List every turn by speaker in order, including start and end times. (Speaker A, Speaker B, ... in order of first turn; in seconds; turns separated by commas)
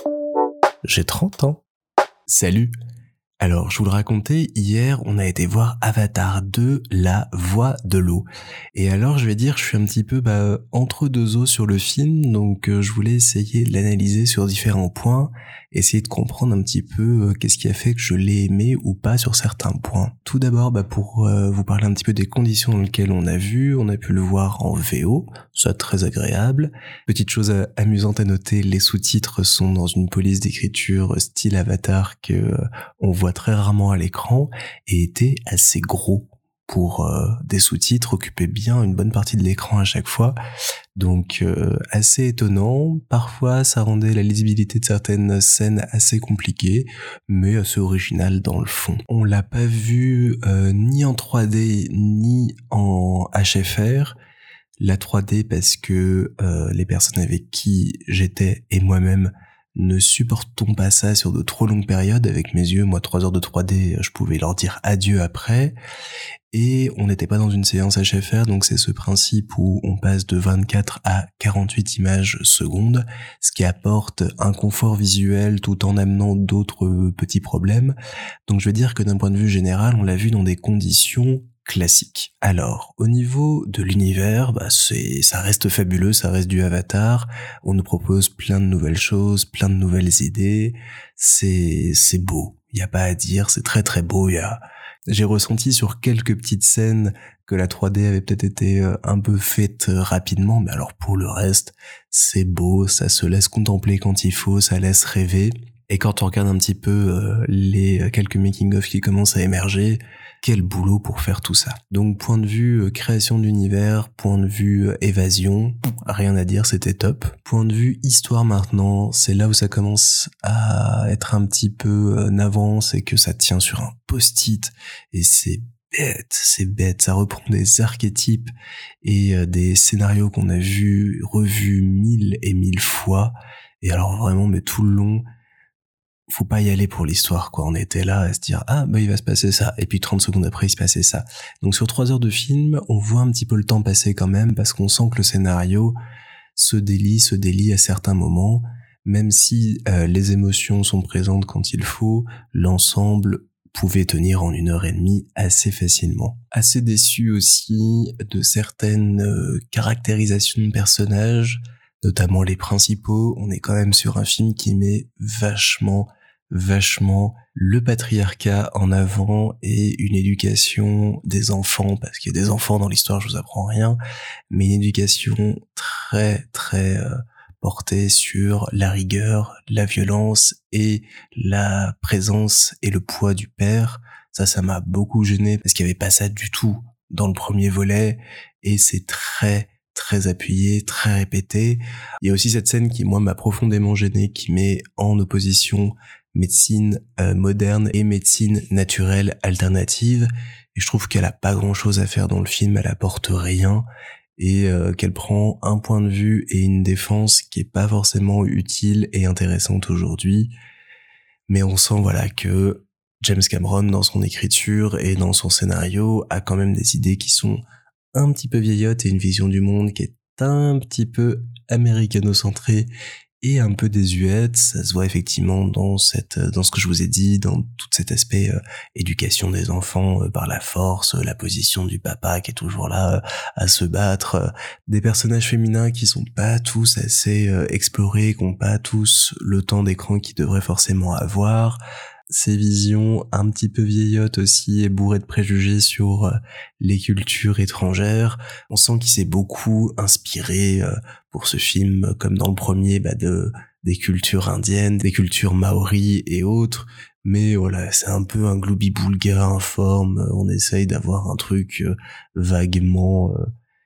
Speaker A: 0.8-1.6, Speaker A: 2.3-2.7, Speaker A: 3.4-40.4, Speaker A: 41.0-54.2, Speaker A: 54.8-65.8, Speaker A: 66.5-78.0, Speaker A: 78.5-128.5, Speaker A: 129.0-135.2, Speaker A: 136.3-146.0, Speaker A: 146.6-174.0, Speaker A: 174.5-203.8, Speaker A: 204.4-210.5, Speaker A: 211.5-217.6, Speaker A: 218.1-222.9, Speaker A: 223.4-263.4